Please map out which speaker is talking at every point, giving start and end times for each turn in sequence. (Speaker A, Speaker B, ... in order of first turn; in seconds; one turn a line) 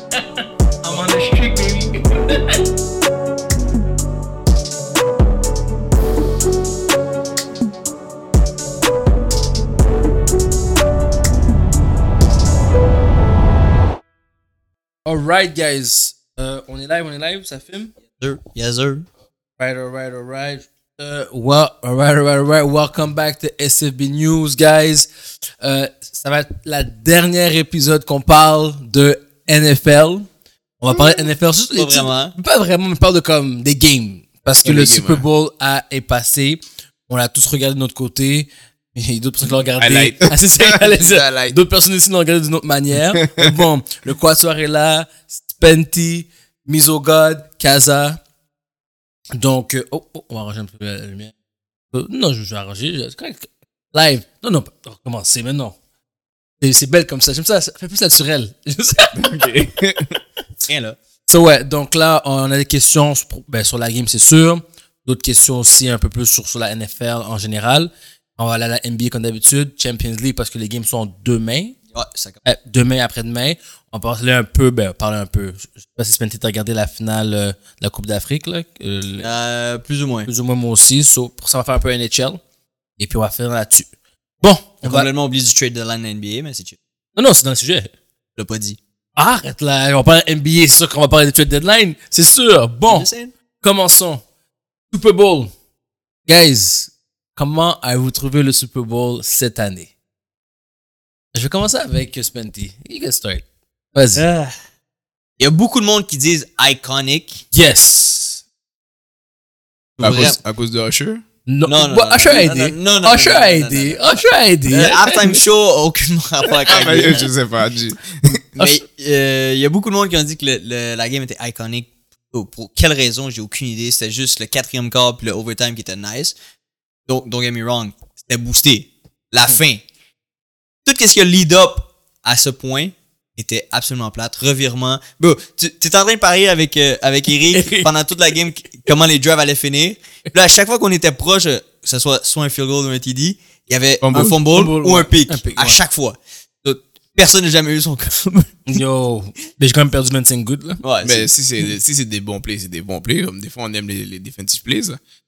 Speaker A: 0.1-2.6
Speaker A: 15.1-17.9
Speaker B: 18.2-19.1
Speaker A: 19.6-25.1
Speaker A: 25.6-30.3
Speaker A: 30.8-48.2
Speaker B: 31.7-32.4
Speaker C: 34.6-35.2
Speaker C: 39.8-41.6
Speaker C: 43.2-43.5
Speaker A: 49.4-51.3
Speaker A: 51.9-55.8
Speaker A: 56.6-59.2
Speaker C: 59.1-60.1
Speaker B: 60.6-61.0
Speaker A: 61.3-71.8
Speaker B: 71.9-72.4
Speaker A: 72.5-79.3
Speaker B: 79.2-80.3
Speaker A: 80.3-82.4
Speaker A: 83.0-83.9
Speaker A: 84.4-85.1
Speaker B: 84.8-86.8
Speaker A: 87.2-87.9
Speaker B: 88.4-88.8
Speaker A: 89.2-93.1
Speaker B: 92.9-93.3
Speaker A: 93.6-94.2
Speaker A: 94.9-95.5
Speaker A: 96.3-99.9
Speaker A: 101.3-104.2
Speaker B: 104.2-104.5
Speaker B: 105.4-107.4
Speaker A: 107.5-108.4
Speaker B: 110.0-110.4
Speaker C: 110.0-111.2
Speaker A: 111.5-115.4
Speaker B: 111.7-117.3
Speaker C: 116.6-118.5
Speaker B: 118.6-126.3
Speaker B: 127.1-129.8
Speaker B: 130.8-148.6
Speaker A: 137.5-137.9
Speaker C: 144.0-144.4
Speaker A: 144.5-145.8
Speaker A: 148.7-150.8
Speaker B: 150.8-151.3
Speaker C: 151.0-155.0